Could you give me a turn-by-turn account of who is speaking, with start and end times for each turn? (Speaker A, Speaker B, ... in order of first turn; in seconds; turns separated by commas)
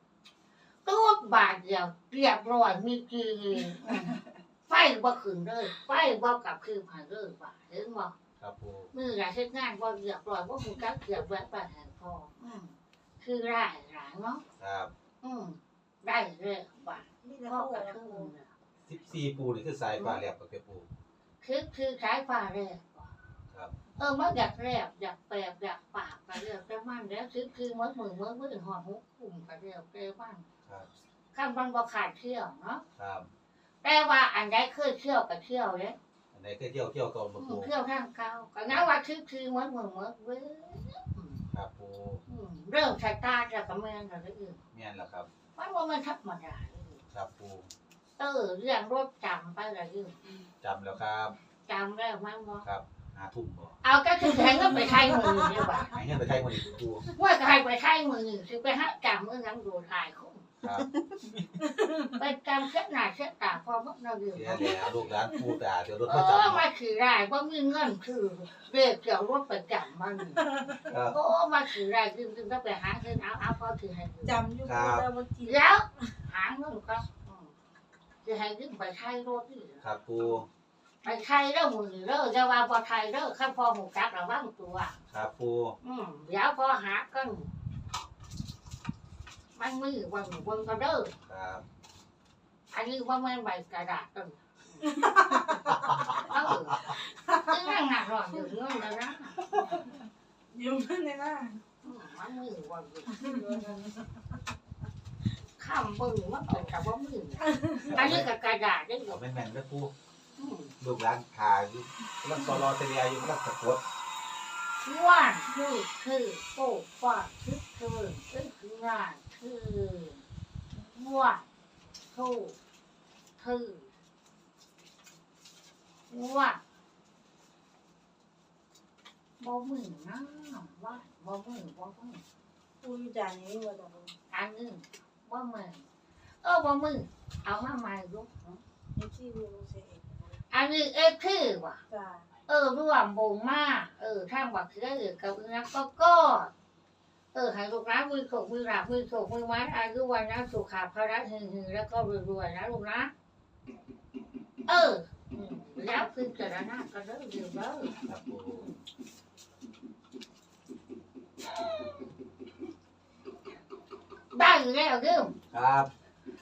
Speaker A: 0.8-4.2, Speaker A: 4.7-8.1, Speaker B: 8.4-8.9, Speaker A: 8.9-14.4, Speaker B: 14.6-14.9, Speaker A: 15.2-18.5, Speaker C: 17.2-18.3, Speaker B: 18.9-20.9, Speaker A: 19.9-20.2, Speaker A: 21.4-23.1, Speaker A: 24.0-30.5, Speaker A: 31.3-32.8, Speaker B: 33.0-33.3, Speaker A: 33.8-36.0, Speaker B: 36.3-37.7, Speaker A: 37.4-41.4, Speaker B: 41.5-42.2, Speaker A: 42.3-44.6, Speaker B: 44.7-45.3, Speaker A: 45.5-47.0, Speaker B: 47.1-47.7, Speaker A: 48.2-50.2, Speaker B: 50.6-51.3, Speaker A: 51.6-52.6, Speaker B: 52.6-53.8, Speaker A: 53.8-56.0, Speaker B: 55.7-57.0, Speaker A: 57.1-60.5, Speaker B: 60.6-60.9, Speaker A: 62.1-64.8, Speaker B: 64.3-66.6, Speaker A: 66.1-74.4, Speaker B: 70.8-71.2, Speaker C: 74.2-76.1, Speaker B: 74.6-75.1, Speaker A: 75.4-77.5, Speaker A: 78.2-79.9, Speaker B: 79.8-80.5, Speaker A: 81.0-85.0, Speaker B: 85.1-85.8, Speaker A: 85.8-87.5, Speaker A: 89.5-91.1, Speaker B: 91.3-91.6, Speaker A: 92.7-95.1, Speaker A: 96.2-99.5, Speaker C: 100.5-101.6, Speaker A: 101.8-103.6, Speaker C: 103.2-104.0, Speaker A: 105.6-109.2, Speaker B: 107.8-108.3, Speaker B: 109.0-109.9, Speaker A: 110.4-110.7, Speaker B: 110.8-113.8, Speaker A: 114.8-121.4, Speaker A: 122.1-122.5, Speaker A: 123.4-123.9, Speaker A: 126.1-126.6, Speaker A: 129.4-132.2, Speaker C: 132.8-134.1, Speaker A: 134.3-135.8, Speaker A: 136.4-138.6, Speaker C: 138.9-140.2, Speaker A: 140.5-141.8, Speaker C: 141.9-142.3, Speaker A: 142.5-146.5, Speaker A: 147.3-153.1, Speaker A: 154.7-158.0, Speaker B: 158.1-158.6, Speaker A: 164.3-165.3, Speaker B: 165.5-165.9